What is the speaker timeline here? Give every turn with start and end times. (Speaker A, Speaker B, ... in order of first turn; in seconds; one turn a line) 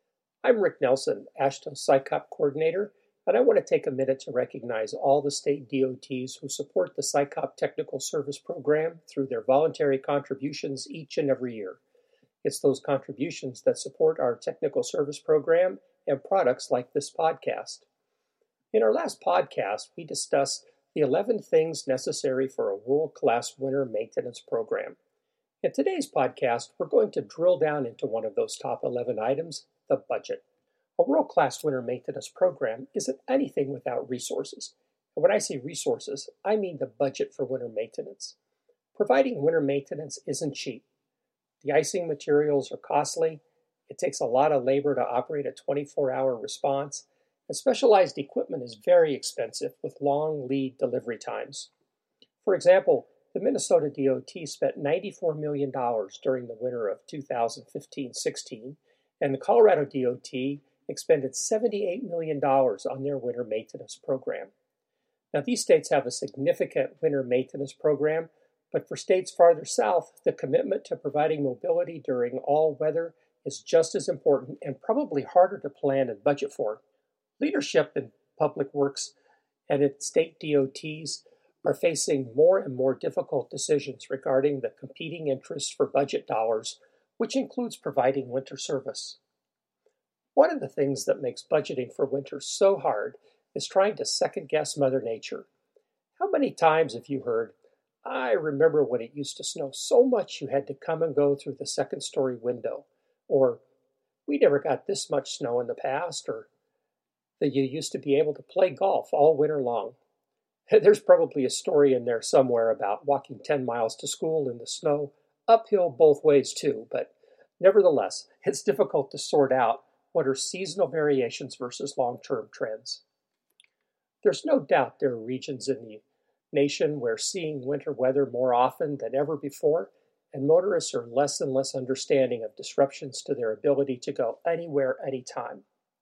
Speaker A: 0.4-11.8
Speaker A: 12.4-17.9
Speaker A: 18.7-25.0
Speaker A: 25.6-30.4
Speaker A: 31.0-38.4
Speaker A: 38.9-40.8
Speaker A: 41.6-51.7
Speaker A: 52.4-64.5
Speaker A: 65.3-76.8
Speaker A: 77.4-79.1
Speaker A: 79.7-89.2
Speaker A: 90.3-95.5
Speaker A: 96.2-103.6
Speaker A: 104.3-106.5
Speaker A: 107.4-110.0
Speaker A: 110.7-123.0
Speaker A: 124.2-135.6